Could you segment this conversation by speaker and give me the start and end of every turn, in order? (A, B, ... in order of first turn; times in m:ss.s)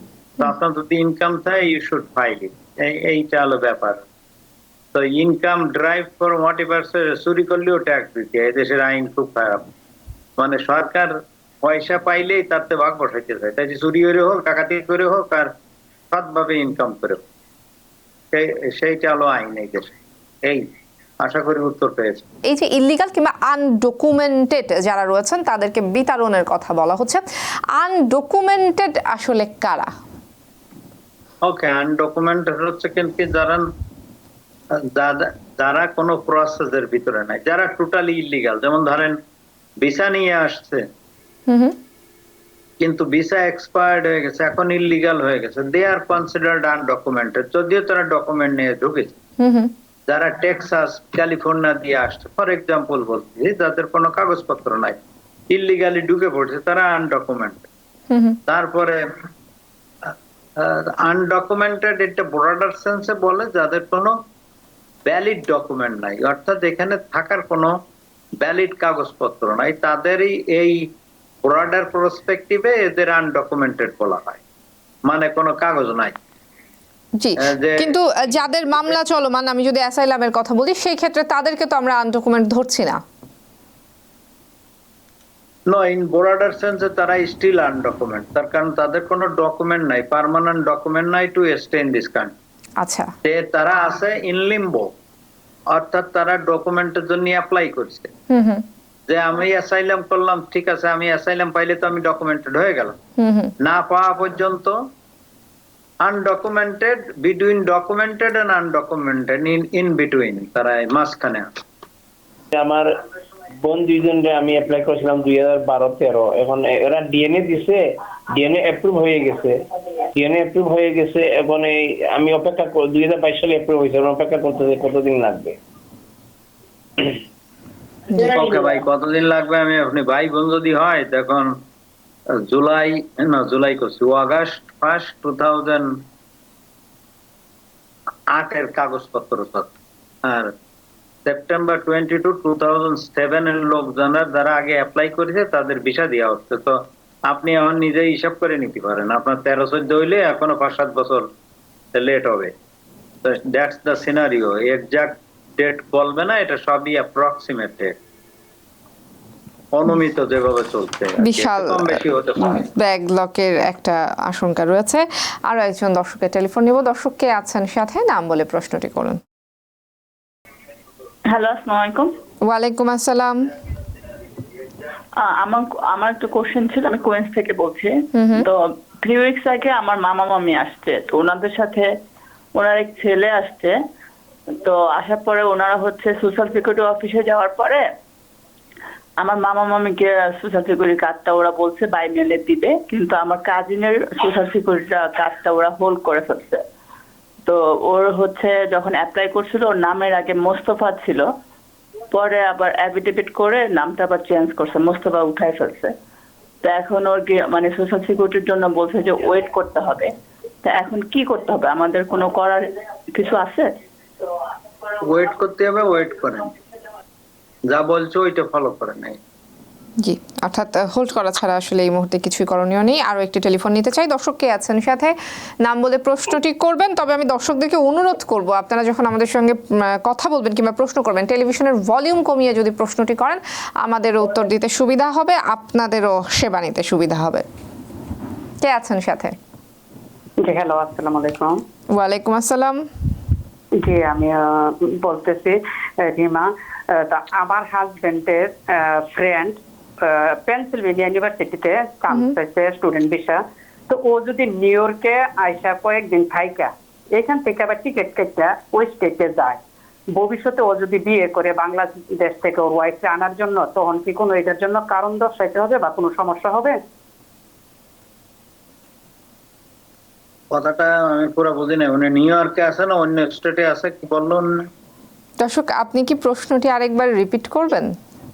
0:00.4-0:04.0 A
0:04.9-0:09.6 A
0:10.4-0:11.1 A
0:11.6-0:15.5 A
0:16.1-0:17.2 A
0:18.3-0:20.6 A
0:21.2-0:22.2 A
0:22.5-0:27.2 B
0:27.8-0:29.9 B
0:31.4-0:33.6 A
0:34.9-0:39.2 A
0:39.8-0:40.8 A
0:41.5-0:41.7 B
0:42.8-0:49.2 A
0:49.4-0:49.7 B
0:50.1-0:55.0 A
0:55.5-0:57.6 A
0:58.1-0:58.4 B
0:58.5-0:59.0 A
1:00.6-1:04.2 A
1:05.1-1:07.7 A
1:08.4-1:10.8 A
1:11.4-1:14.4 A
1:15.1-1:16.1 A
1:17.2-1:23.0 B
1:17.4-1:18.0 A
1:18.6-1:19.0 A
1:25.7-1:32.3 A
1:32.8-1:33.1 B
1:33.2-1:34.9 A
1:35.7-1:38.1 A
1:38.3-1:38.6 B
1:39.1-1:43.0 A
1:43.2-1:43.5 B
1:43.6-1:44.8 A
1:46.0-1:51.5 A
1:52.5-1:52.9 C
1:53.6-1:59.6 C
2:00.1-2:05.6 C
2:08.1-2:11.5 A
2:12.5-2:15.9 A
2:18.3-2:19.7 A
2:20.2-2:20.5 A
2:21.2-2:26.8 A
2:27.3-2:31.3 A
2:31.9-2:32.5 A
2:33.2-2:37.9 A
2:39.7-2:42.6 A
2:41.2-2:42.0 B
2:42.6-2:49.2 B
2:51.3-2:52.1 D
2:52.4-2:53.5 B
2:55.2-3:01.9 D
2:58.1-2:58.4 B
3:02.6-3:03.7 D
3:04.6-3:07.8 D
3:09.2-3:16.6 D
3:17.4-3:21.2 D
3:22.1-3:25.9 D
3:26.6-3:30.1 D
3:30.6-3:32.6 D
3:33.1-3:33.7 D
3:35.0-3:36.5 A
3:37.7-3:39.2 A
3:40.0-3:45.1 B
3:45.6-3:57.4 B
3:58.6-3:59.3 B
4:00.4-4:01.6 E
4:02.0-4:02.8 B
4:03.8-4:19.6 E
4:20.1-4:26.8 E
4:30.5-4:34.5 A
4:35.4-4:37.9 B